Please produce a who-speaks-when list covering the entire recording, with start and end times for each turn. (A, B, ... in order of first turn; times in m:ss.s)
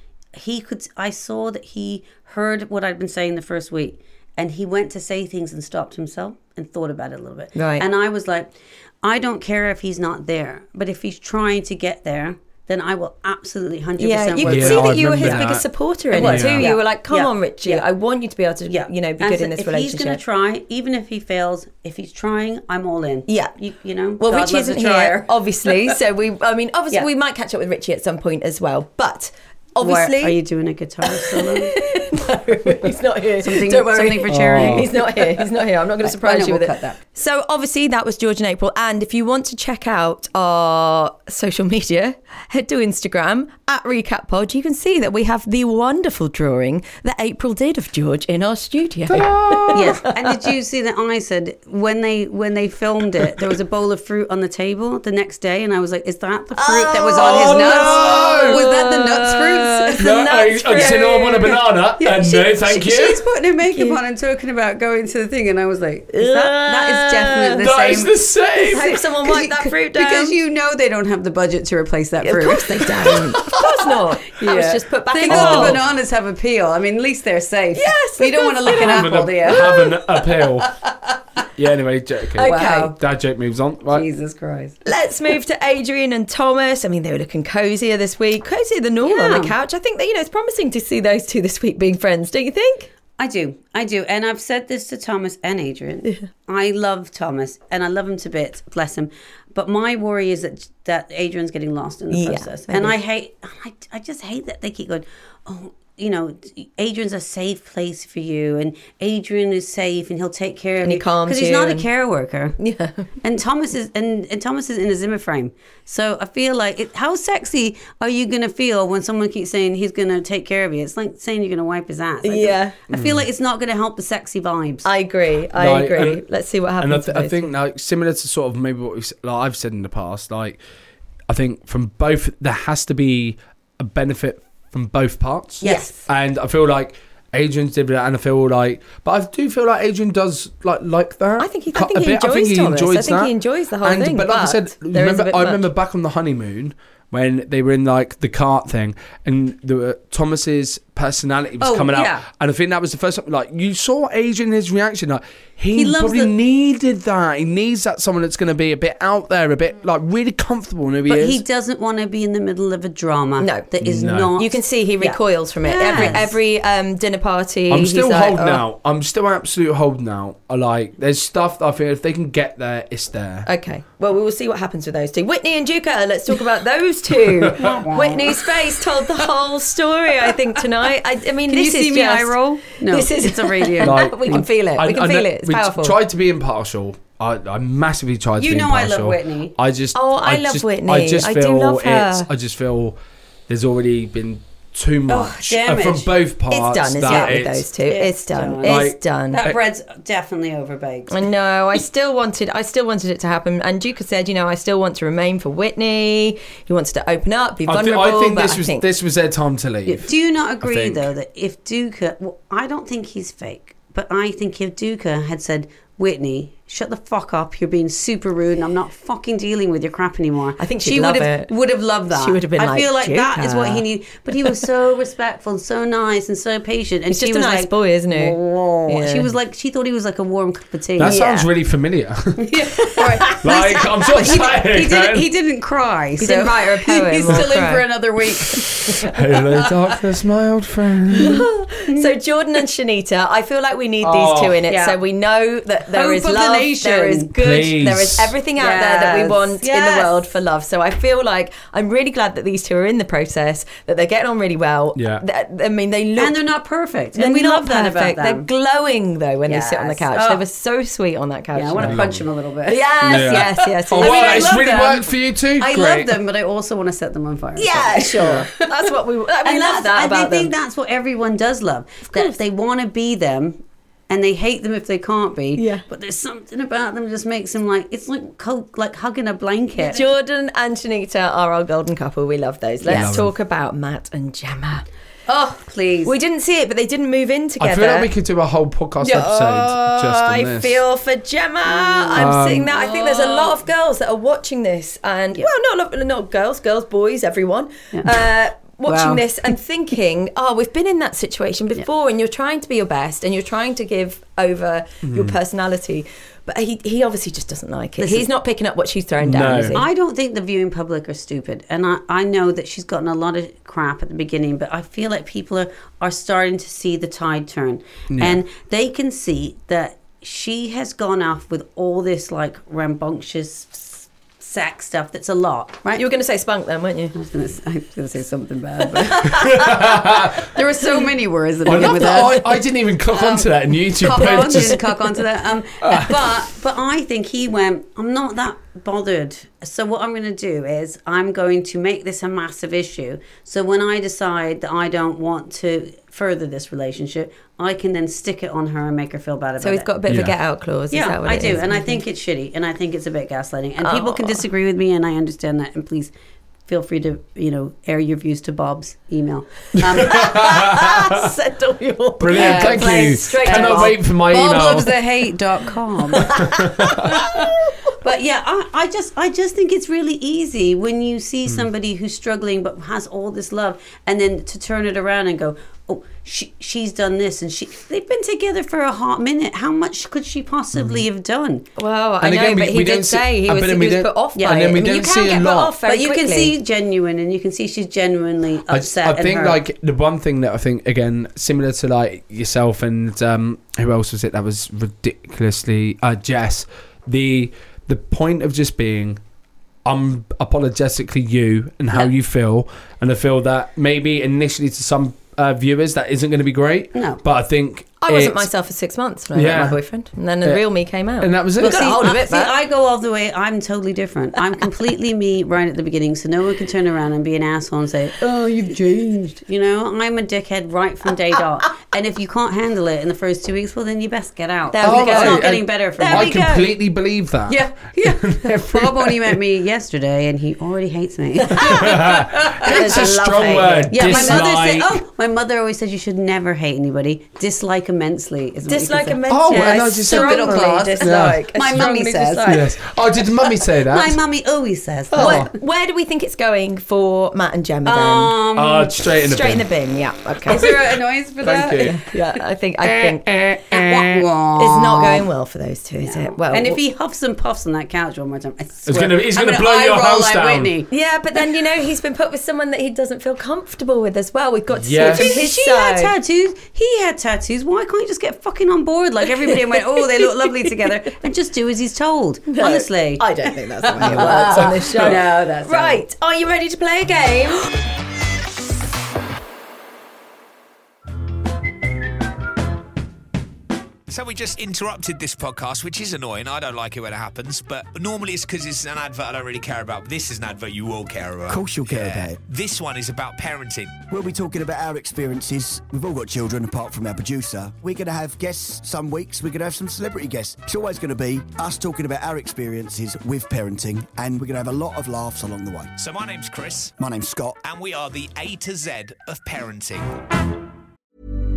0:00.4-0:15.5 A
0:07.6-0:07.9 B
0:14.0-0:20.2 B
0:14.5-0:16.7 C
0:16.1-0:17.9 A
0:18.7-0:26.0 A
0:23.3-0:23.5 B
0:24.2-0:30.4 B
0:29.8-0:31.8 A
0:31.1-0:50.1 B
0:33.4-0:37.0 A
0:34.3-0:34.9 C
0:49.1-0:50.0 C
0:49.7-1:13.6 A
0:56.5-1:01.6 B
0:57.2-0:58.6 C
1:00.0-1:03.2 C
1:03.7-1:04.0 B
1:06.1-1:07.7 B
1:07.6-1:08.9 C
1:08.6-1:10.4 B
1:12.2-1:15.8 B
1:14.3-1:21.1 A
1:15.3-1:15.8 C
1:17.8-1:19.7 B
1:18.7-1:20.7 C
1:21.6-1:24.1 C
1:22.4-1:22.9 B
1:22.4-1:23.0 A
1:23.9-1:24.8 A
1:24.8-1:32.9 B
1:29.0-1:29.6 A
1:33.2-1:52.6 A
1:42.1-1:43.0 B
1:50.8-1:51.9 B
1:52.6-1:53.1 B
1:53.2-2:04.9 A
2:02.2-2:02.8 B
2:02.9-2:03.2 C
2:04.8-2:07.5 B
2:05.6-2:06.2 C
2:06.8-2:10.6 C
2:11.3-2:41.4 C
2:15.6-2:16.0 B
2:21.4-2:25.7 B
2:31.6-2:32.2 A
2:35.7-2:36.3 A
2:41.1-2:46.4 A
2:43.4-2:43.7 B
2:43.8-2:44.4 C
2:44.4-2:48.6 B
2:47.7-2:53.5 C
2:53.5-3:06.0 B
2:57.3-2:57.8 C
2:57.6-2:58.8 A
3:01.5-3:04.5 A
3:03.8-3:13.0 C
3:08.4-3:09.6 A
3:09.9-3:12.3 B
3:13.5-3:17.7 C
3:15.1-3:16.1 A
3:16.5-3:19.4 B
3:17.1-3:21.2 A
3:18.6-3:19.6 C
3:21.1-3:28.9 B
3:27.7-3:30.1 C
3:29.9-3:51.3 A
3:30.6-3:31.1 C
3:40.6-3:41.5 B
3:42.1-3:43.8 B
3:47.1-3:49.3 B
3:51.0-3:52.6 C
3:51.0-3:51.4 B
3:52.4-3:59.9 A
3:53.0-3:53.5 B
3:53.3-3:55.3 C
3:54.0-3:54.4 B
3:56.2-3:57.9 B
3:59.0-4:01.4 C
4:01.2-4:16.4 B
4:04.0-4:04.6 C
4:04.7-4:05.0 A
4:05.9-4:07.3 A
4:07.4-4:08.3 C
4:08.6-4:10.1 A
4:15.0-4:15.2 C
4:16.2-4:18.5 A
4:17.2-4:22.0 B
4:19.5-4:20.4 A
4:21.6-4:40.1 A
4:21.8-4:22.2 C
4:22.7-4:24.6 B
4:23.0-4:26.2 C
4:27.6-4:30.5 B
4:28.2-4:28.5 C
4:35.6-4:35.8 B
4:39.8-4:44.8 B
4:42.8-4:43.3 C
4:45.3-4:46.2 A
4:46.0-4:48.1 B
4:47.6-4:50.8 C
4:49.0-5:09.9 B
4:51.8-4:53.6 A
4:52.2-4:52.7 C
4:57.9-4:58.2 A
4:58.9-4:59.5 A
5:05.0-5:05.4 C
5:08.0-5:08.3 A
5:09.2-5:09.8 C
5:09.7-5:26.1 A
5:18.1-5:18.4 C
5:26.0-5:27.1 B
5:27.1-5:32.5 A
5:28.9-5:29.9 B
5:29.3-5:30.5 C
5:30.8-5:31.1 B
5:31.7-5:34.9 C
5:31.7-5:32.3 B
5:33.1-5:49.9 A
5:34.1-5:34.8 B
5:35.8-5:36.2 C
5:49.6-5:52.0 B
5:50.1-5:50.4 C
5:50.9-5:56.1 A
5:53.8-5:54.4 B
5:56.7-6:00.5 A
5:59.8-6:01.2 C
6:00.0-6:04.0 B
6:02.2-6:04.9 C
6:02.3-6:06.4 A
6:06.2-6:07.7 B
6:06.2-6:07.2 C
6:07.0-6:21.7 A
6:20.8-6:21.0 C
6:21.8-6:26.5 B
6:22.2-6:25.8 C
6:24.4-6:25.1 A
6:25.8-6:29.6 A
6:28.7-6:39.2 C
6:39.8-6:48.5 C
6:46.9-6:47.2 A
6:48.0-6:52.6 B
6:49.3-6:49.8 C
6:51.2-6:52.1 C
6:51.6-7:06.4 A
7:04.7-7:06.7 B
7:04.8-7:09.4 C
7:07.5-7:13.1 A
7:11.4-7:12.1 B
7:11.6-7:15.0 C
7:12.6-7:14.5 B
7:13.9-7:22.7 A
7:18.7-7:22.6 B
7:19.3-7:21.9 C
7:22.5-7:24.2 C
7:23.6-7:25.5 A
7:25.1-7:28.4 B
7:25.1-7:25.5 C
7:27.8-7:28.9 A
7:28.6-7:29.7 C
7:29.2-7:30.8 B
7:30.5-7:32.0 A
7:31.4-7:32.0 C
7:31.8-7:33.2 B
7:32.8-7:34.2 C
7:33.7-7:35.3 A
7:34.6-7:36.8 B
7:36.0-7:40.9 A
7:38.9-7:40.7 C
7:40.9-7:46.1 B
7:44.8-7:45.4 C
7:45.0-7:56.0 A
7:49.5-7:49.8 B
7:50.7-7:50.9 B
7:52.5-7:57.7 B
7:54.0-7:55.2 C
8:04.1-8:14.0 D
8:11.5-8:12.4 E
8:14.1-8:25.9 E
8:26.0-8:26.9 D
8:27.0-8:27.6 E
8:27.6-8:30.1 D